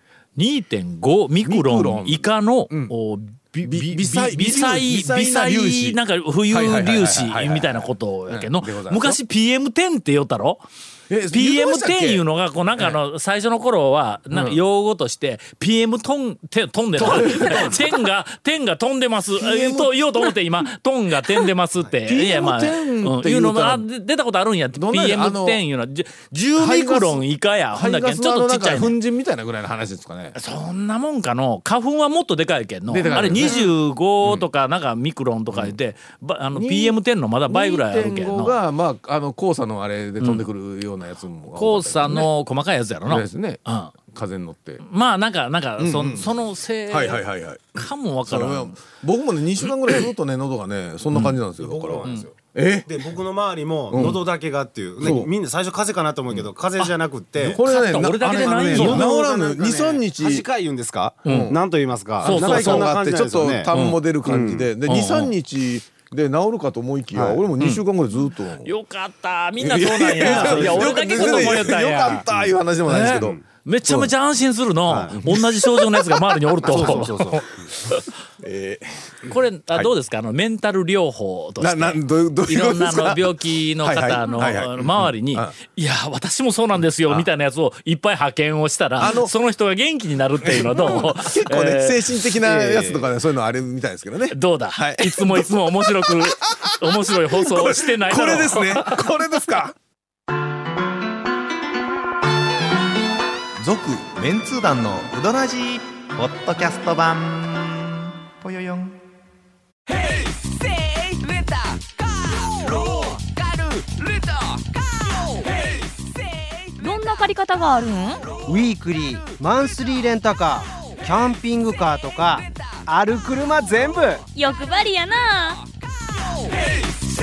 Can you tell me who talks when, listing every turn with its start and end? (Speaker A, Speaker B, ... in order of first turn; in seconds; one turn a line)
Speaker A: 0.4-10.6
Speaker B: 1.4-2.9
Speaker B: 3.6-6.0
Speaker B: 6.5-9.2
Speaker B: 11.1-12.2
Speaker A: 11.3-28.9
Speaker B: 14.3-14.6
Speaker B: 16.9-17.9
Speaker B: 19.3-20.3
Speaker B: 22.0-23.9
Speaker B: 24.7-25.6
Speaker B: 26.6-30.4
Speaker A: 30.3-38.6
Speaker B: 32.9-34.5
Speaker B: 35.5-35.8
Speaker B: 36.5-42.3
Speaker A: 41.5-43.9
Speaker B: 43.0-44.8
Speaker A: 44.8-47.2
Speaker B: 45.8-46.3
Speaker B: 46.9-53.0
Speaker A: 47.7-48.8
Speaker A: 51.1-51.4
Speaker C: 51.6-57.6
Speaker B: 53.9-54.2
Speaker B: 55.0-55.3
Speaker A: 57.4-59.1
Speaker B: 57.4-60.5
Speaker C: 58.2-63.7
Speaker A: 61.2-61.5
Speaker B: 61.2-61.6
Speaker B: 62.2-68.7
Speaker A: 62.2-62.9
Speaker A: 63.7-64.0
Speaker C: 64.2-64.7
Speaker A: 64.8-65.3
Speaker C: 67.1-67.4
Speaker A: 67.6-67.8
Speaker A: 68.6-72.3
Speaker B: 69.6-74.1
Speaker C: 70.2-71.6
Speaker A: 72.8-78.1
Speaker C: 74.9-75.2
Speaker B: 75.1-77.2
Speaker C: 76.6-77.5
Speaker B: 78.4-79.9
Speaker A: 79.3-92.1
Speaker B: 81.6-85.5
Speaker B: 89.0-89.3
Speaker B: 90.4-99.7
Speaker C: 92.4-93.1
Speaker A: 94.3-99.1
Speaker D: 103.6-109.0
Speaker E: 116.8-118.3
Speaker F: 118.5-124.2
Speaker E: 124.3-125.6